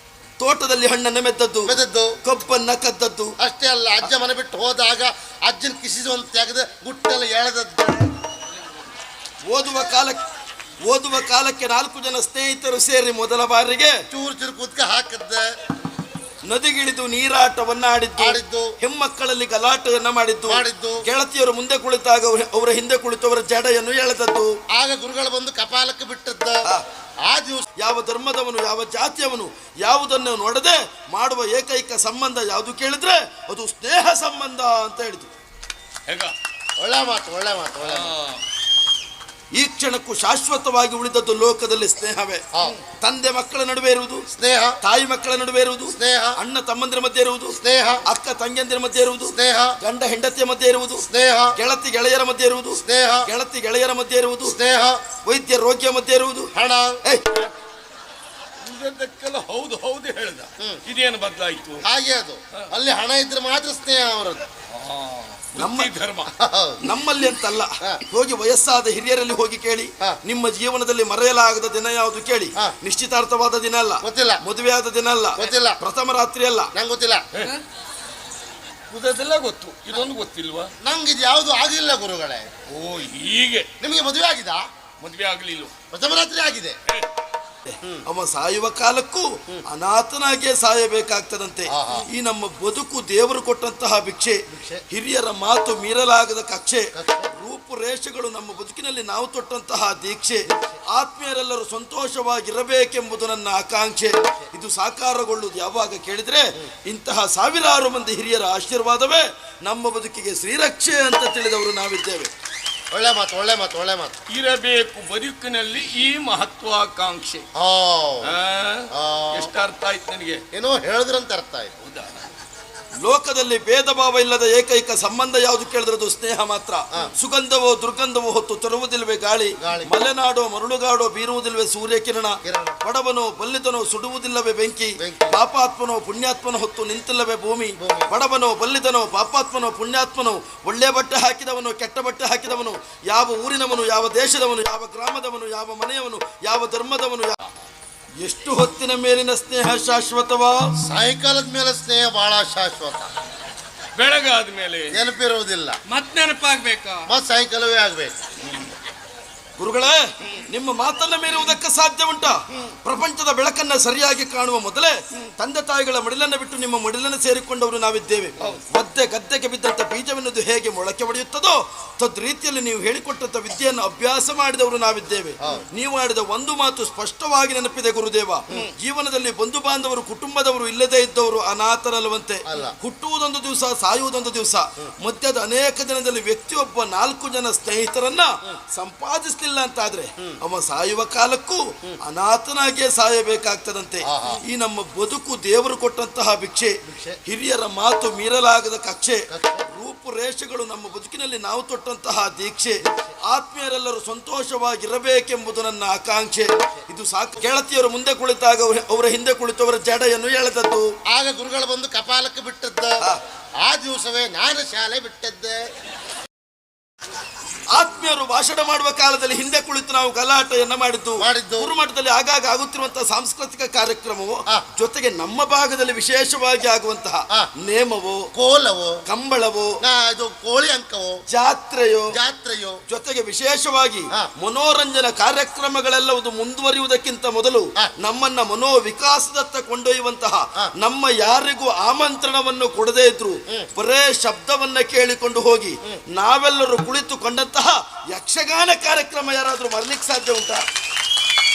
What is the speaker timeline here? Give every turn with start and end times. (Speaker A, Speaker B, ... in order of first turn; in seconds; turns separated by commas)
Speaker A: 0.4-3.3, Speaker B: 1.7-2.1, Speaker B: 3.4-8.1, Speaker A: 9.5-10.2, Speaker A: 10.8-13.9, Speaker B: 14.1-15.4, Speaker A: 16.5-24.6, Speaker B: 18.2-18.7, Speaker B: 20.5-21.0, Speaker B: 24.7-26.6, Speaker B: 27.3-27.7, Speaker A: 27.8-35.3, Speaker C: 36.1-36.4, Speaker B: 36.8-38.1, Speaker C: 37.8-38.4, Speaker A: 39.5-42.4, Speaker A: 43.0-44.2, Speaker B: 44.3-44.8, Speaker A: 44.8-54.6, Speaker B: 46.0-46.4, Speaker B: 47.6-48.0, Speaker B: 49.3-49.8, Speaker B: 51.1-51.5, Speaker B: 52.8-53.3, Speaker B: 54.5-55.0, Speaker A: 55.2-56.5, Speaker B: 56.5-57.0, Speaker C: 58.6-61.8, Speaker B: 61.8-64.4, Speaker C: 64.7-66.3, Speaker A: 65.6-65.9, Speaker B: 66.4-66.8, Speaker A: 66.8-76.7, Speaker B: 74.0-74.4, Speaker B: 75.4-75.8, Speaker B: 76.7-77.2, Speaker C: 77.3-77.6, Speaker C: 78.9-80.7, Speaker B: 80.8-82.5, Speaker C: 82.7-83.7, Speaker B: 83.8-84.6, Speaker C: 85.0-85.7, Speaker B: 85.9-86.8, Speaker A: 87.7-112.3, Speaker B: 91.7-92.1, Speaker B: 94.5-94.8, Speaker B: 97.0-97.3, Speaker B: 112.9-114.2, Speaker C: 114.3-117.5, Speaker B: 117.5-118.3, Speaker C: 118.2-120.4, Speaker B: 118.9-119.5, Speaker B: 120.5-121.7, Speaker C: 121.8-122.2, Speaker A: 123.0-147.4, Speaker B: 129.6-129.9, Speaker B: 132.4-132.8, Speaker B: 135.0-135.4, Speaker B: 137.8-138.1, Speaker A: 148.2-150.7, Speaker B: 150.8-153.1, Speaker C: 153.9-155.0, Speaker B: 154.9-155.8, Speaker C: 155.9-157.1, Speaker B: 157.1-158.1, Speaker A: 159.6-210.9, Speaker B: 182.5-182.8, Speaker B: 194.1-194.4, Speaker B: 196.9-197.2, Speaker B: 199.3-199.7, Speaker B: 211.1-213.0, Speaker B: 213.6-215.6, Speaker A: 217.7-228.3, Speaker B: 221.2-221.7, Speaker B: 228.3-229.0, Speaker A: 229.1-229.8, Speaker B: 229.8-231.2, Speaker A: 231.3-232.1, Speaker B: 232.1-232.8, Speaker A: 232.9-250.6